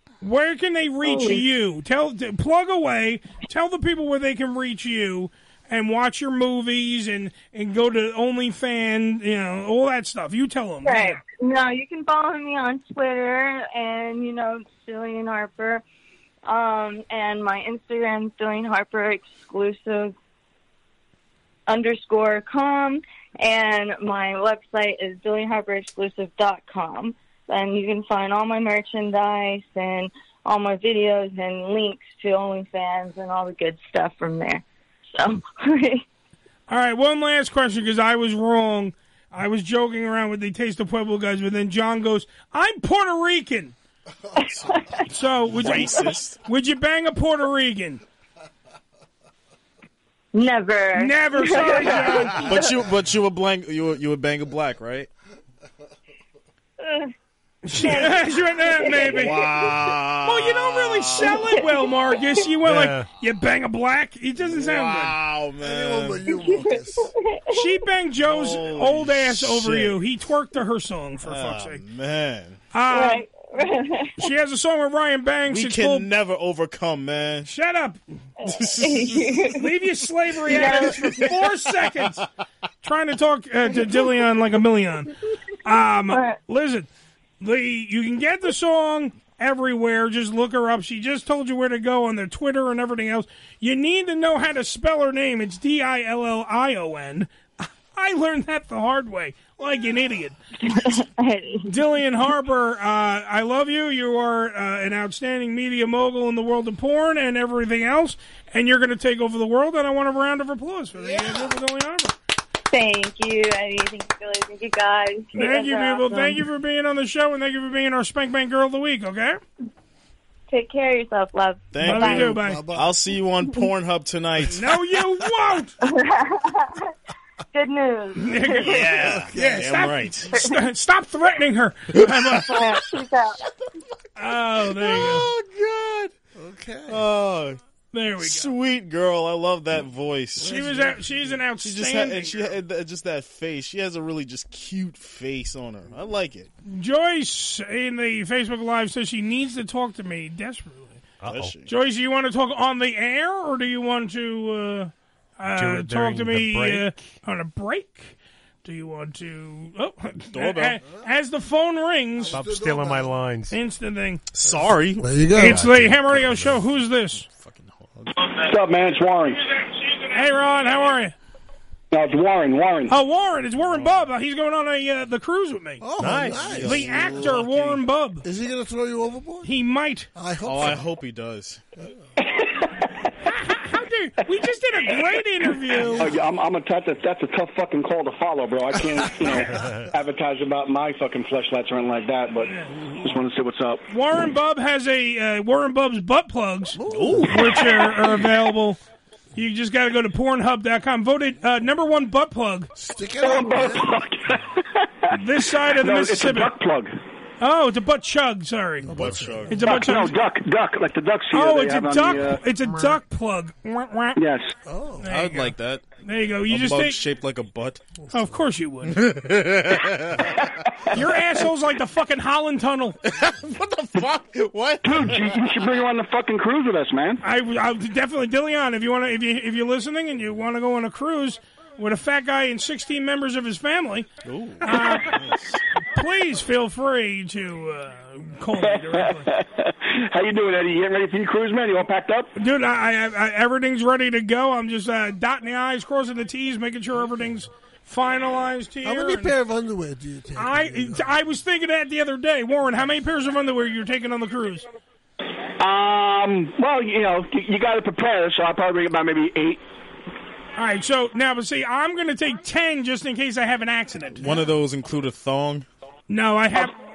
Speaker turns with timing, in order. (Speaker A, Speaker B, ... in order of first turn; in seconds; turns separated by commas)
Speaker A: 0.2-11.2, Speaker B: 1.0-1.4, Speaker B: 10.8-15.8, Speaker B: 16.4-20.1, Speaker B: 21.7-36.0, Speaker A: 36.7-43.7, Speaker B: 44.5-45.0, Speaker A: 45.1-48.0, Speaker C: 45.4-46.4, Speaker B: 50.3-52.6, Speaker A: 51.0-52.6, Speaker C: 52.3-55.1, Speaker B: 56.8-57.1, Speaker A: 57.6-59.5, Speaker B: 57.7-59.9, Speaker C: 59.0-61.5, Speaker A: 60.2-65.2, Speaker B: 61.2-62.4, Speaker D: 62.6-63.0, Speaker C: 64.4-66.3, Speaker E: 65.6-67.1, Speaker B: 66.3-67.8, Speaker A: 67.5-71.8, Speaker C: 68.2-70.0, Speaker C: 71.2-72.6, Speaker A: 72.7-73.3, Speaker B: 72.9-74.2, Speaker A: 74.2-76.1, Speaker C: 75.5-77.5, Speaker A: 77.5-78.0, Speaker C: 78.4-79.5, Speaker B: 78.4-79.6, Speaker A: 79.5-82.2, Speaker B: 80.5-81.3, Speaker C: 80.5-81.3, Speaker C: 82.0-82.2, Speaker A: 82.8-85.1, Speaker A: 85.6-86.9, Speaker B: 86.1-86.4, Speaker A: 87.4-100.4, Speaker B: 100.7-101.7, Speaker A: 101.6-112.1, Speaker E: 111.0-111.5, Speaker B: 112.7-116.4, Speaker A: 115.3-119.4, Speaker B: 120.5-122.3, Speaker C: 121.7-124.7, Speaker A: 121.8-122.7, Speaker E: 122.3-122.9, Speaker A: 124.5-125.8, Speaker B: 125.8-126.9, Speaker B: 127.5-129.1, Speaker A: 128.2-132.6, Speaker C: 128.6-130.3, Speaker E: 128.9-129.7, Speaker C: 131.9-132.9, Speaker B: 132.4-133.4, Speaker A: 134.2-135.3, Speaker C: 134.7-136.1, Speaker E: 136.3-137.1, Speaker C: 136.9-137.6, Speaker A: 137.9-138.5, Speaker C: 138.2-140.9, Speaker A: 140.4-142.6, Speaker E: 140.4-140.9, Speaker C: 141.5-146.5, Speaker A: 146.6-151.0, Speaker D: 151.2-151.5, Speaker C: 151.2-151.7, Speaker A: 151.7-162.4, Speaker D: 155.5-157.0, Speaker C: 160.3-160.8, Speaker E: 162.2-163.2, Speaker D: 162.3-163.5, Speaker A: 163.5-164.2, Speaker C: 164.3-168.1, Speaker E: 164.5-165.6, Speaker A: 165.3-167.2, Speaker F: 168.3-169.4, Speaker A: 169.9-171.1, Speaker F: 171.9-172.9, Speaker A: 172.9-175.8, Speaker C: 173.7-174.0, Speaker E: 175.8-177.2, Speaker D: 176.0-176.5, Speaker C: 176.2-177.8, Speaker A: 176.6-178.2, Speaker E: 178.2-179.5, Speaker A: 179.4-180.1, Speaker E: 180.1-180.8, Speaker C: 180.4-181.6, Speaker F: 182.2-182.8, Speaker A: 183.2-186.1, Speaker F: 185.9-193.8, Speaker E: 188.9-189.7, Speaker D: 189.5-189.8, Speaker A: 192.5-192.7, Speaker A: 193.9-198.8, Speaker E: 196.8-197.6, Speaker C: 196.9-197.5, Speaker A: 199.3-202.7, Speaker E: 202.8-203.9, Speaker F: 203.2-205.1, Speaker A: 205.1-206.5, Speaker F: 205.7-206.9, Speaker A: 207.4-210.1, Speaker E: 208.8-209.5, Speaker C: 208.9-209.8, Speaker F: 209.6-212.4, Speaker A: 211.3-214.2, Speaker F: 214.2-214.5, Speaker E: 214.6-215.1, Speaker A: 215.0-217.0, Speaker C: 215.1-215.8, Speaker C: 216.5-217.8, Speaker A: 218.1-219.1, Speaker C: 218.9-220.3, Speaker A: 220.9-223.0, Speaker C: 223.1-225.3, Speaker F: 224.8-227.2, Speaker A: 227.2-234.1, Speaker C: 234.2-235.6, Speaker A: 234.6-235.1, Speaker A: 235.9-239.3, Speaker F: 238.6-242.3, Speaker A: 242.3-249.3, Speaker E: 248.8-251.1, Speaker A: 250.4-254.7, Speaker F: 255.6-259.6, Speaker A: 260.6-264.5, Speaker C: 264.1-265.6, Speaker A: 266.1-266.8